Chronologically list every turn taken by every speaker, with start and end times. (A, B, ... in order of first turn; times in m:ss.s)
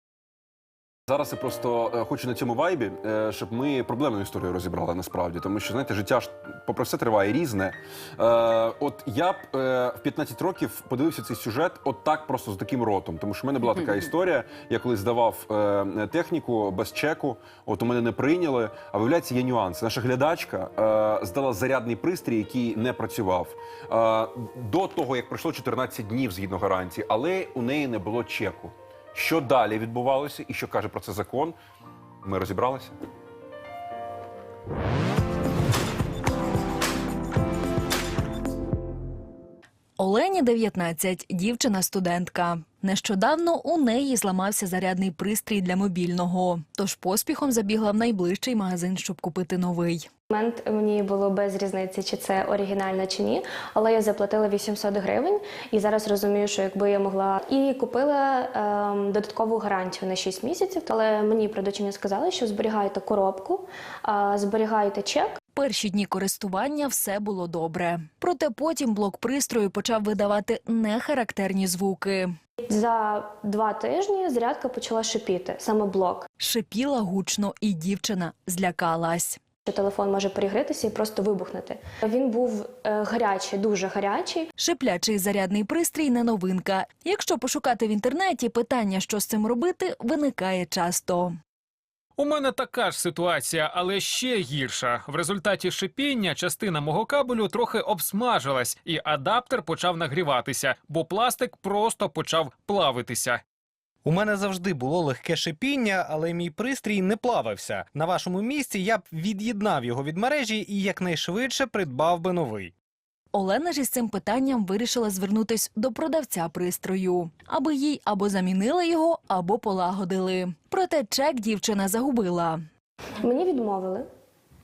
0:01.1-0:31.6 A
0:32.2-0:33.0 A
0:40.0-0:50.1 B
0:50.3-1:05.4 C
1:05.5-1:12.3 B
1:12.7-1:16.2 C
1:16.4-1:19.4 B
1:19.7-1:24.5 C
1:24.6-1:31.3 B
1:32.2-1:43.4 D
1:44.0-1:52.7 E
1:53.3-2:02.6 B
2:03.2-2:04.0 C